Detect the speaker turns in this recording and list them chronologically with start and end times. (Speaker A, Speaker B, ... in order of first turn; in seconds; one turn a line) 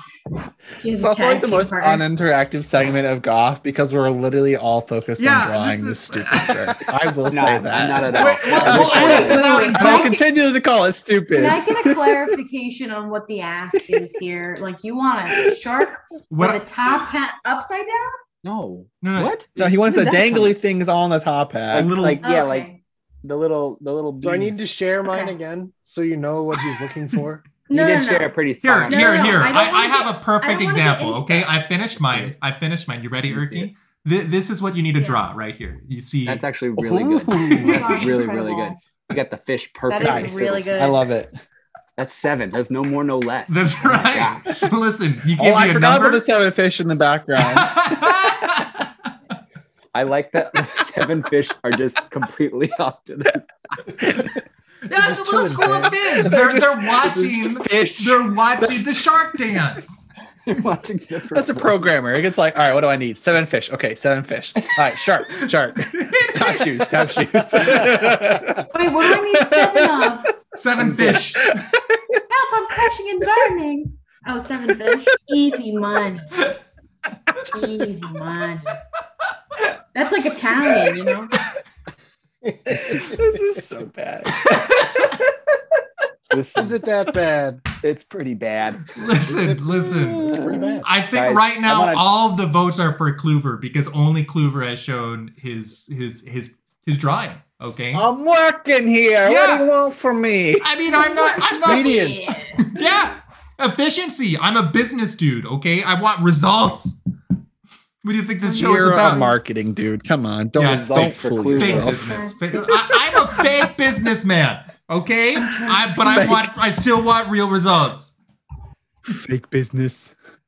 Speaker A: 0.8-2.1
Speaker B: 0.8-12.3
Speaker C: 5.2-6.8
Speaker D: 7.3-9.7
Speaker C: 8.1-10.2
Speaker A: 8.7-10.2
Speaker A: 11.3-18.1
Speaker C: 16.3-16.6
Speaker D: 18.4-20.6
Speaker C: 19.0-19.8
Speaker B: 19.6-21.9
Speaker D: 21.7-22.7
Speaker C: 21.7-22.2
Speaker A: 22.2-22.8
Speaker D: 23.2-24.6
Speaker E: 24.2-27.4
Speaker A: 25.1-25.4
Speaker A: 27.7-28.4
Speaker D: 27.7-29.5
Speaker C: 28.6-36.4
Speaker A: 28.9-31.5
Speaker D: 32.0-32.4
Speaker D: 33.3-33.7
Speaker A: 35.0-35.2
Speaker D: 36.2-40.7
Speaker E: 36.8-37.7
Speaker C: 37.3-38.0
Speaker A: 37.6-38.8
Speaker A: 39.9-41.1
Speaker B: 40.0-41.4
Speaker D: 42.0-44.5
Speaker C: 43.5-46.2
Speaker B: 45.4-47.8
Speaker C: 47.4-48.9
Speaker D: 49.9-53.8
Speaker C: 54.9-60.0
Speaker E: 54.9-56.1
Speaker B: 56.2-59.1
Speaker D: 60.5-61.9
Speaker B: 61.3-70.2
Speaker C: 65.4-67.1
Speaker E: 67.7-68.6
Speaker A: 68.7-70.3
Speaker C: 70.5-71.6
Speaker D: 70.8-71.2
Speaker B: 70.9-72.2
Speaker A: 72.3-76.5
Speaker A: 77.5-78.8
Speaker A: 79.9-81.3
Speaker E: 82.4-83.3
Speaker B: 82.9-85.3
Speaker D: 86.3-86.8
Speaker E: 86.6-87.6
Speaker D: 87.8-89.0
Speaker C: 88.9-98.1
Speaker E: 89.2-90.9
Speaker B: 90.2-90.7
Speaker D: 91.1-92.0
Speaker B: 97.9-100.7
Speaker C: 99.2-99.7
Speaker C: 100.6-107.0
Speaker A: 100.9-102.7
Speaker E: 101.5-102.4
Speaker C: 108.0-109.3
Speaker B: 108.4-112.0
Speaker C: 110.6-118.2
Speaker D: 110.8-112.0
Speaker A: 112.0-113.5
Speaker A: 115.4-115.9
Speaker B: 116.0-116.5
Speaker B: 119.1-120.2